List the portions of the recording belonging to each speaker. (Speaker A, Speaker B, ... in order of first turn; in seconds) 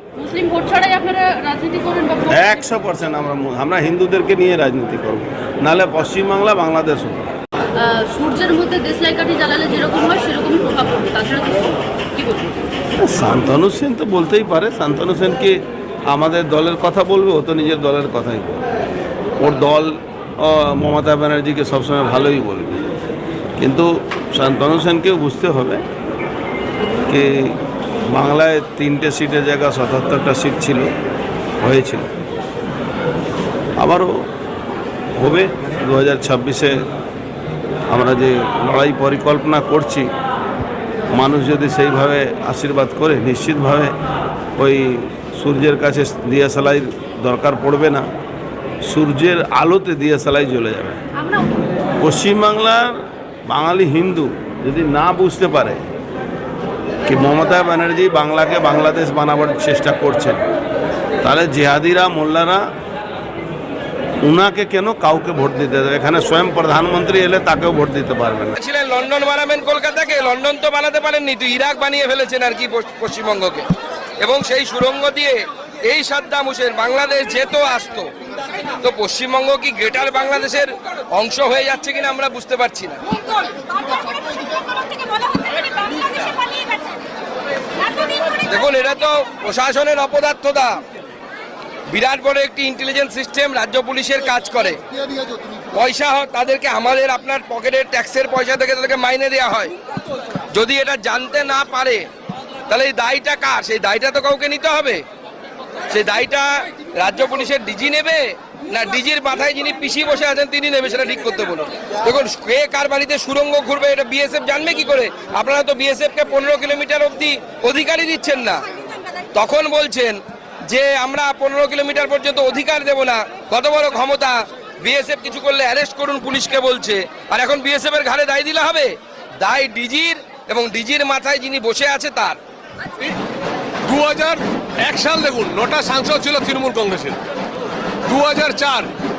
Speaker A: 0.2-2.6, 7.8-12.6, 51.2-51.5, 83.3-87.0, 87.8-88.2
Speaker B: 2.3-7.3, 13.0-18.6, 19.4-22.8, 23.6-25.8, 27.1-27.6, 28.1-30.9, 31.6-32.1, 33.8-34.2, 35.2-36.8, 37.9-40.1, 41.1-43.9, 44.6-48.1, 48.9-51.0, 52.0-55.8, 57.1-60.4, 61.2-62.6, 64.2-68.6
Speaker C: 68.6-73.7, 74.2-78.1, 78.7-83.1, 88.3-90.8, 91.9-94.8, 95.7-99.7, 100.5-102.1, 102.7-105.0, 105.9-118.7, 119.3-132.4
Speaker D: 133.9-137.2, 138.1-138.9